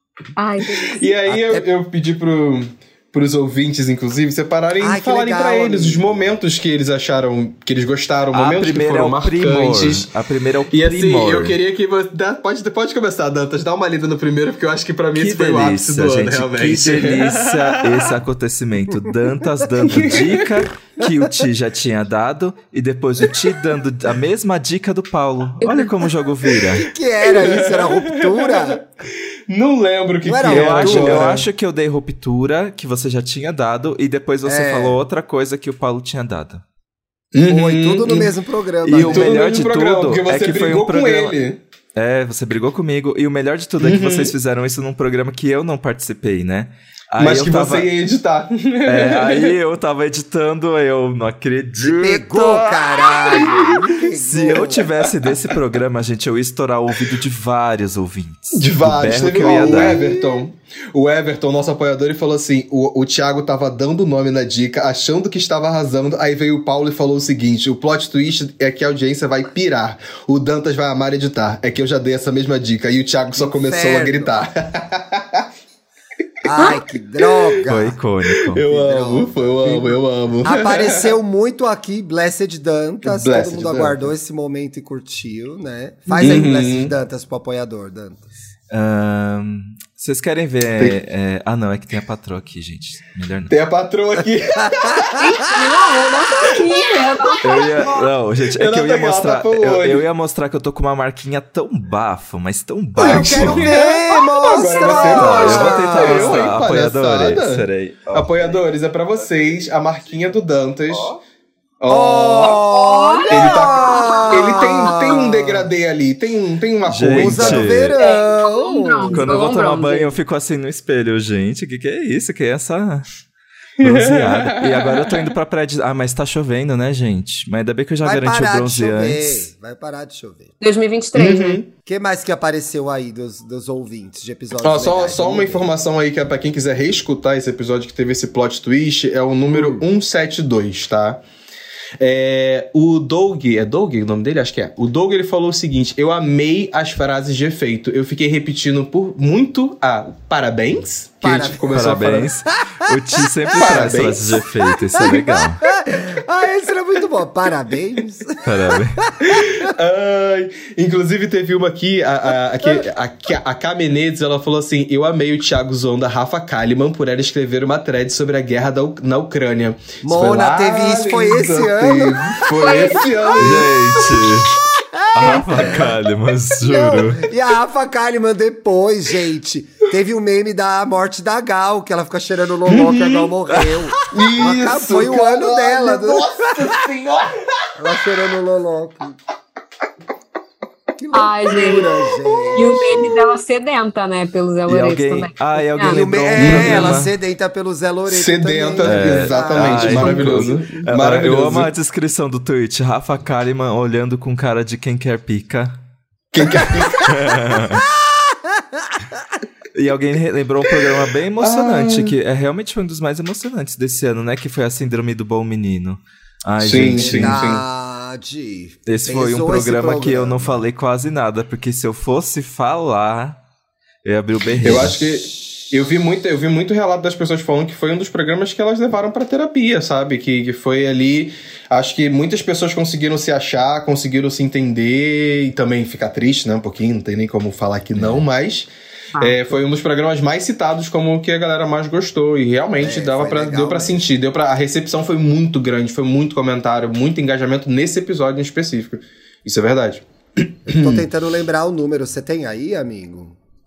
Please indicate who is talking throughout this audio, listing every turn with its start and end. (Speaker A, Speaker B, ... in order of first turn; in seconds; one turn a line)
Speaker A: 0.3-1.0
Speaker B: 0.9-10.1
Speaker C: 1.3-1.6
Speaker C: 4.8-6.2
Speaker D: 8.3-11.6
Speaker B: 10.7-18.2
Speaker D: 15.2-26.9
Speaker B: 19.8-20.6
Speaker A: 25.6-25.9
Speaker C: 26.7-28.8
Speaker B: 27.2-28.9
Speaker B: 29.5-31.4
Speaker C: 30.2-31.4
Speaker D: 30.4-36.6
Speaker C: 34.4-35.0
Speaker B: 37.3-38.3
Speaker C: 37.5-39.4
Speaker D: 38.9-41.4
Speaker B: 38.9-41.6
Speaker D: 41.9-47.9
Speaker B: 43.8-44.3
Speaker B: 47.2-49.5
Speaker D: 48.9-60.0
Speaker C: 51.8-54.9
Speaker B: 53.0-53.9
Speaker B: 58.5-75.5
Speaker C: 59.3-60.5
Speaker C: 73.3-74.5
Speaker C: 76.4-78.0
Speaker B: 76.6-77.6
Speaker D: 77.7-78.6
Speaker B: 78.3-81.1
Speaker C: 78.7-88.2
Speaker B: 83.0-84.1
Speaker A: 86.1-86.4
Speaker B: 86.2-86.9
Speaker D: 88.7-93.5
Speaker B: 93.5-95.2
Speaker C: 94.5-95.6
Speaker A: 95.2-97.9
Speaker D: 97.4-103.7
Speaker B: 98.5-100.0
Speaker C: 103.0-106.5
Speaker B: 103.0-111.2
Speaker D: 104.8-108.6
Speaker B: 111.8-112.6
Speaker C: 111.9-115.7
Speaker A: 112.7-114.9
Speaker B: 113.3-117.9
Speaker D: 116.9-118.0
Speaker C: 117.1-119.3
Speaker A: 117.9-120.2
Speaker D: 119.1-123.1
Speaker B: 123.8-125.3
Speaker D: 123.8-129.4
Speaker C: 128.0-130.5
Speaker A: 130.6-131.6
Speaker B: 131.1-131.7
Speaker C: 131.8-135.7
Speaker B: 134.6-141.2
Speaker C: 139.5-139.8
Speaker B: 142.0-152.3
Speaker C: 151.2-151.8
Speaker D: 151.7-155.6
Speaker C: 152.7-153.9
Speaker B: 153.6-154.4
Speaker C: 154.7-159.7
Speaker D: 158.4-159.0
Speaker B: 159.2-174.3
Speaker C: 170.0-173.1
Speaker A: 172.5-173.6
Speaker D: 173.4-174.5
Speaker C: 174.9-175.9
Speaker D: 175.1-177.3
Speaker B: 175.6-175.9
Speaker C: 176.6-186.8
Speaker B: 182.7-183.3
Speaker B: 184.1-187.7
Speaker C: 187.8-189.2
Speaker C: 190.9-192.9
Speaker A: 191.1-191.9
Speaker B: 191.8-192.8
Speaker A: 192.5-196.0
Speaker D: 194.7-197.1
Speaker C: 195.8-200.5
Speaker B: 196.3-197.1
Speaker B: 198.1-201.7
Speaker D: 198.8-205.8
Speaker B: 206.3-207.1
Speaker C: 206.4-209.4
Speaker D: 206.5-207.8
Speaker D: 209.7-217.4
Speaker B: 211.4-212.1
Speaker B: 216.6-217.6
Speaker C: 216.9-220.6
Speaker D: 218.8-223.4
Speaker D: 224.0-225.1
Speaker B: 224.6-251.0
Speaker D: 237.9-238.2
Speaker C: 242.8-244.1
Speaker C: 250.7-253.3